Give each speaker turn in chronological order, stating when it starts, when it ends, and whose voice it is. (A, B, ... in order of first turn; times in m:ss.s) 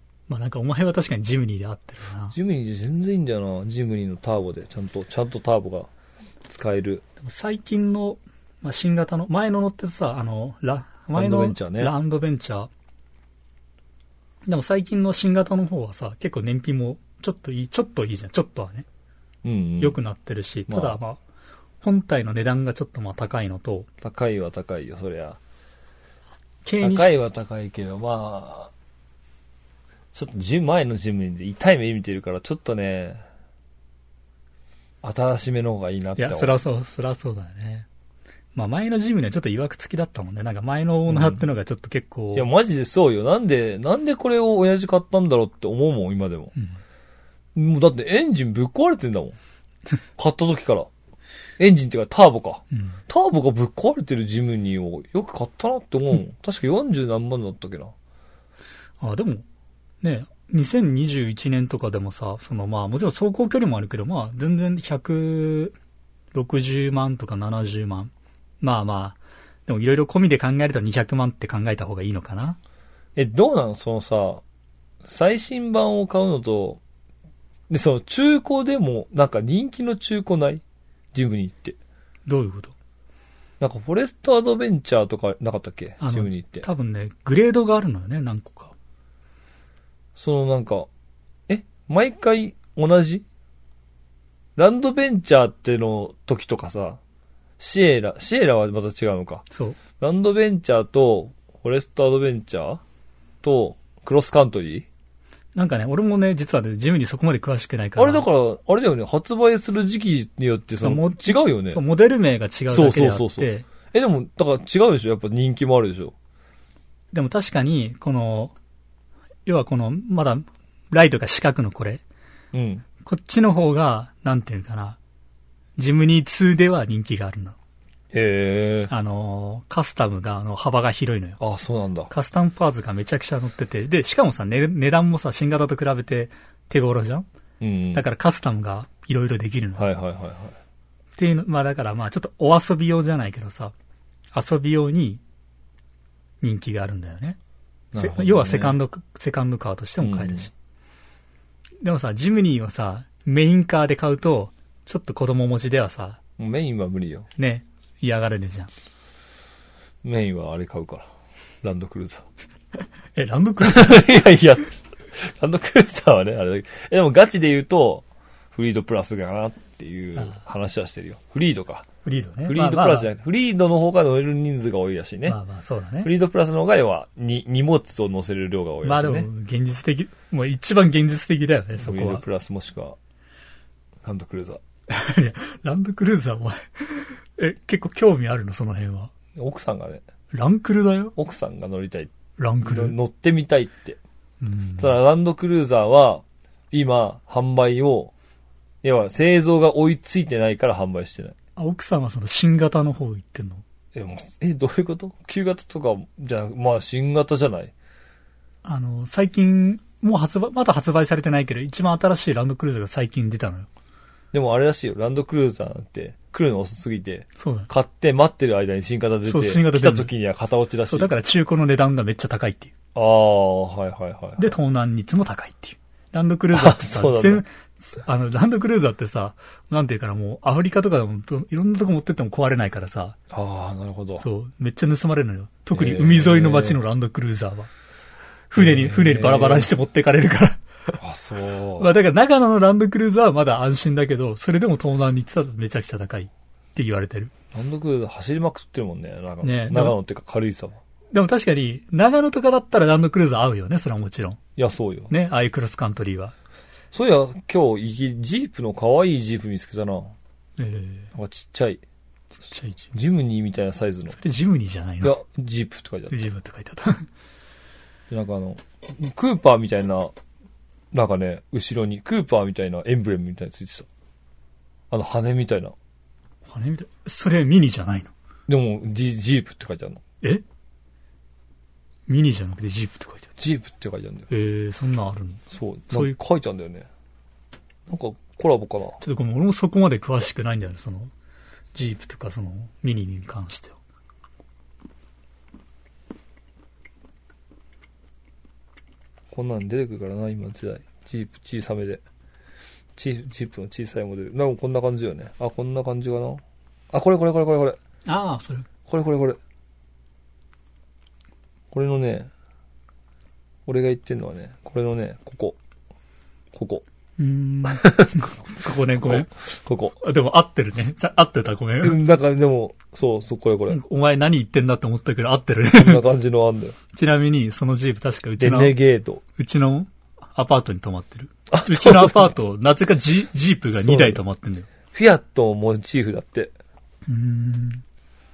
0:00.3-0:02.4 A
0:02.3-0:05.9 B
0:06.5-0:07.0 B
0:07.2-0:12.7 A
0:11.1-0:11.9 B
0:14.4-0:18.9 A
0:19.4-0:20.0 B
0:19.8-0:21.2 A
0:20.7-0:21.0 B
0:21.8-0:23.9 A
0:24.0-0:25.4 B
0:26.6-0:27.1 A
0:26.8-0:28.7 B
0:30.1-0:33.2 B
0:35.0-0:36.6 B
0:36.2-0:37.9 A
0:38.6-0:42.5 A
0:41.1-0:41.4 B
0:42.3-0:46.5 B
0:47.6-0:49.4 B
0:50.2-0:50.9 B
0:51.6-0:57.9 B
0:52.7-0:53.0 A
0:59.0-0:59.4 A
1:00.0-1:05.8 A
1:06.3-1:12.6 A
1:13.2-1:14.4 B
1:15.0-1:16.8 B
1:17.7-1:20.6 B
1:21.1-1:21.8 B
1:22.3-1:22.7 A
1:23.6-1:26.6 B
1:26.0-1:28.7 A
1:30.2-1:30.9 B
1:31.5-1:33.2 B
1:34.6-1:37.0 B
1:37.6-1:39.4 B
1:39.5-1:39.8 A
1:40.0-1:42.8 B
1:43.4-1:44.9 B
1:45.6-1:48.2 A
1:48.0-1:51.8 B
1:50.8-1:53.7 A
1:52.7-1:56.1 B
1:57.1-1:58.5 A
1:59.5-2:02.0 A
2:02.5-2:02.9 B
2:03.0-2:05.0 A
2:05.8-2:07.6 A
2:08.1-2:08.9 B
2:08.9-2:11.4 A
2:11.4-2:12.1 B
2:12.1-2:17.3 A
2:17.6-2:18.0 B
2:17.9-2:19.9 A
2:19.8-2:20.6 B
2:21.2-2:23.7 A
2:24.3-2:25.2 A
2:26.4-2:27.4 A
2:27.9-2:28.8 B
2:28.0-2:30.5 A
2:30.0-2:30.5 B
2:31.8-2:36.2 A
2:36.4-2:37.3 B
2:37.4-2:38.7 A
2:40.0-2:41.1 B
2:41.6-2:42.3 B
2:43.2-2:44.2 A
2:43.6-2:51.9 B
2:52.0-2:53.1 A
2:52.5-2:55.4 B
2:55.3-2:56.1 A
2:56.0-2:59.3 B
2:58.8-3:02.2 A
3:01.8-3:03.0 B
3:04.0-3:04.6 B
3:04.9-3:09.1 A
3:09.4-3:10.0 B
3:10.3-3:11.2 A
3:11.2-3:12.1 B
3:12.4-3:13.0 A
3:12.6-3:14.0 B
3:14.4-3:15.0 A
3:14.8-3:18.1 B
3:18.8-3:21.4 B
3:21.6-3:23.6 A
3:23.9-3:27.7 B
3:28.6-3:33.7 A
3:34.3-3:41.1 B
3:37.4-3:37.7 A
3:39.3-3:40.1 A
3:40.9-3:42.7 A
3:43.0-3:44.6 B
3:44.4-3:53.2 A
3:46.5-3:47.4 B
3:53.3-3:54.2 B
3:54.2-3:57.7 A
3:55.8-3:56.8 B
3:58.5-4:01.0 A
3:58.6-3:59.7 B
4:01.0-4:02.0 B
4:01.8-4:07.3 A
4:07.5-4:10.8 B
4:09.4-4:10.0 A
4:11.1-4:14.4 A
4:14.6-4:15.1 B
4:15.1-4:16.4 A
4:16.9-4:20.1 B
4:20.6-4:21.1 A
4:21.1-4:21.8 B
4:22.4-4:22.9 A
4:22.9-4:24.2 B
4:24.2-4:25.2 A
4:25.0-4:26.2 B
4:26.1-4:27.1 A
4:28.1-4:30.1 B
4:30.9-4:33.9 B
4:34.9-4:35.8 B
4:36.5-4:38.1 A
4:38.5-4:40.0 B
4:42.1-4:43.3 A
4:43.4-4:44.3 B
4:44.3-4:46.2 A
4:45.5-4:46.9 B
4:47.9-4:49.0 B
4:49.0-4:51.1 A
4:51.7-4:53.8 A
4:59.3-5:02.0 B
5:03.0-5:07.8 B
5:08.1-5:08.7 A
5:08.9-5:09.4 B
5:11.7-5:12.3 B
5:13.7-5:15.6 B
5:16.5-5:16.8 B
5:17.2-5:19.3 A
5:17.7-5:20.0 B
5:20.0-5:22.0 A
5:21.8-5:23.8 B
5:23.7-5:26.0 A
5:25.7-5:26.8 B
5:26.9-5:28.8 A
5:28.4-5:29.2 B
5:29.4-5:34.7 A
5:31.5-5:32.3 B
5:33.8-5:34.2 B
5:34.9-5:36.5 B
5:37.1-5:37.8 A